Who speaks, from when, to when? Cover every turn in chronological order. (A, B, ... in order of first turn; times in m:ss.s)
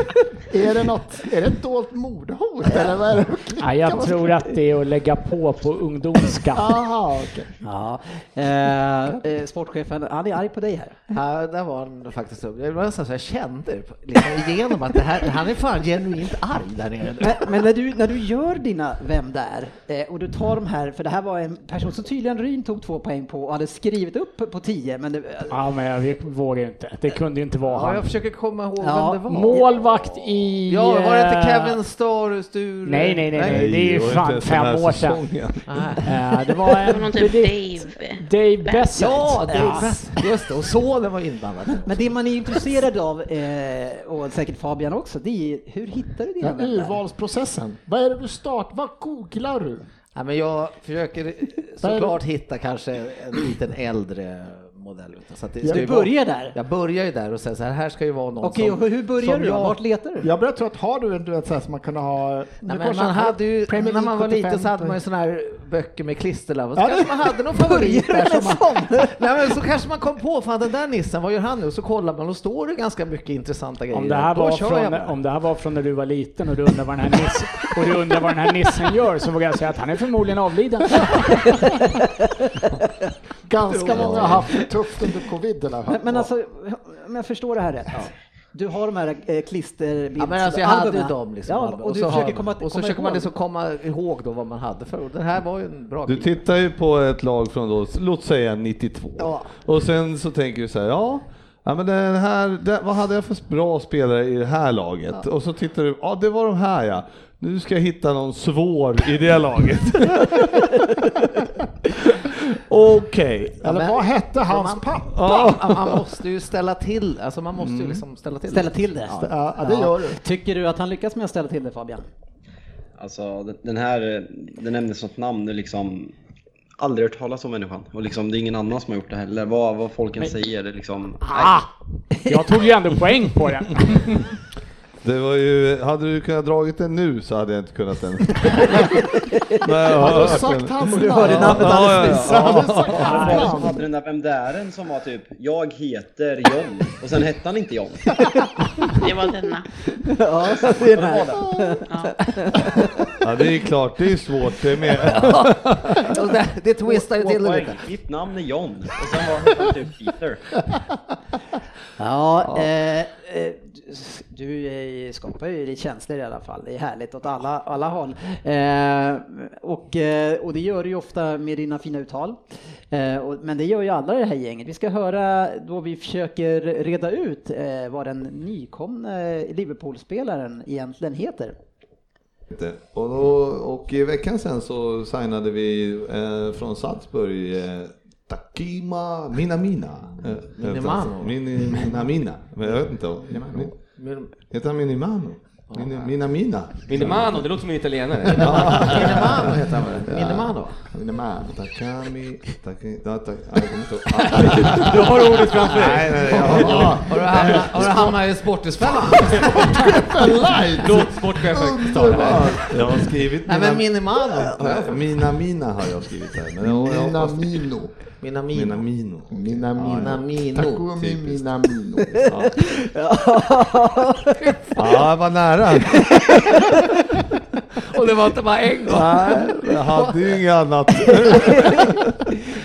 0:00.5-0:04.3 A
0:03.6-0:06.8 B
0:06.5-0:07.5 A
0:07.6-0:11.0 C
0:11.1-0:17.5 D
0:17.2-0:25.5 C
0:25.5-0:28.1 B
0:27.7-0:30.0 D
0:28.8-0:29.2 C
0:29.3-0:31.8 B
0:30.7-0:33.6 D
0:32.8-0:35.2 B
0:33.4-0:35.9 E
0:35.7-0:36.0 D
0:36.0-0:40.0 B
0:36.8-0:38.9 F
0:39.0-0:42.0 D
0:41.9-0:47.0 C
0:46.4-0:49.9 A
0:50.2-0:59.8 D
0:51.8-0:52.2 A
0:55.7-0:56.6 C
0:58.4-1:00.3 C
1:00.2-1:05.0 A
1:02.6-1:08.2 D
1:06.8-1:08.9 A
1:07.7-1:09.1 C
1:09.1-1:15.2 D
1:13.9-1:21.6 B
1:23.5-1:26.3 A
1:23.8-1:24.5 D
1:23.9-1:24.4 E
1:25.9-1:33.3 C
1:30.2-1:36.4 D
1:36.1-1:51.1 E
1:51.9-1:53.6 E
1:53.6-1:55.2 A
1:53.6-1:59.3 D
1:55.1-1:56.1 E
1:57.6-1:58.0 E
1:58.5-2:02.1 C
1:59.2-2:00.2 A
2:03.0-2:06.1 G
2:06.8-2:11.6 G
2:11.2-2:11.7 B
2:12.2-2:14.4 B
2:15.0-2:23.5 E
2:19.9-2:23.8 A
2:20.9-2:22.7 C
2:23.0-2:23.5 B
2:23.1-2:28.1 G
2:29.0-2:29.7 F
2:30.1-2:31.8 C
2:30.6-2:31.5 G
2:31.9-2:32.2 F
2:32.4-2:32.8 C
2:33.2-2:36.1 E
2:35.0-2:37.9 D
2:37.0-2:40.5 G
2:42.0-2:52.4 C
2:52.9-3:01.6 C
3:02.5-3:13.8 E
3:10.5-3:12.1 D
3:12.6-3:14.3 D
3:14.4-3:17.5 E
3:15.7-3:16.2 D
3:16.9-3:19.1 H
3:18.3-3:28.1 E
3:18.8-3:20.9 D
3:24.4-3:26.1 H
3:26.3-3:30.0 D
3:26.5-3:27.6 A
3:29.4-3:32.7 A
3:30.8-3:32.6 H
3:32.0-3:37.6 E
3:33.5-3:35.1 D
3:36.6-3:38.0 A
3:38.2-3:39.0 D
3:38.5-3:40.2 E
3:39.3-3:42.2 A
3:39.8-3:40.9 D
3:41.0-3:41.4 E
3:42.2-3:42.7 E
3:42.9-3:44.4 C
3:44.8-3:46.1 E
3:47.8-3:50.4 D
3:48.9-3:52.0 E
3:51.1-3:51.7 D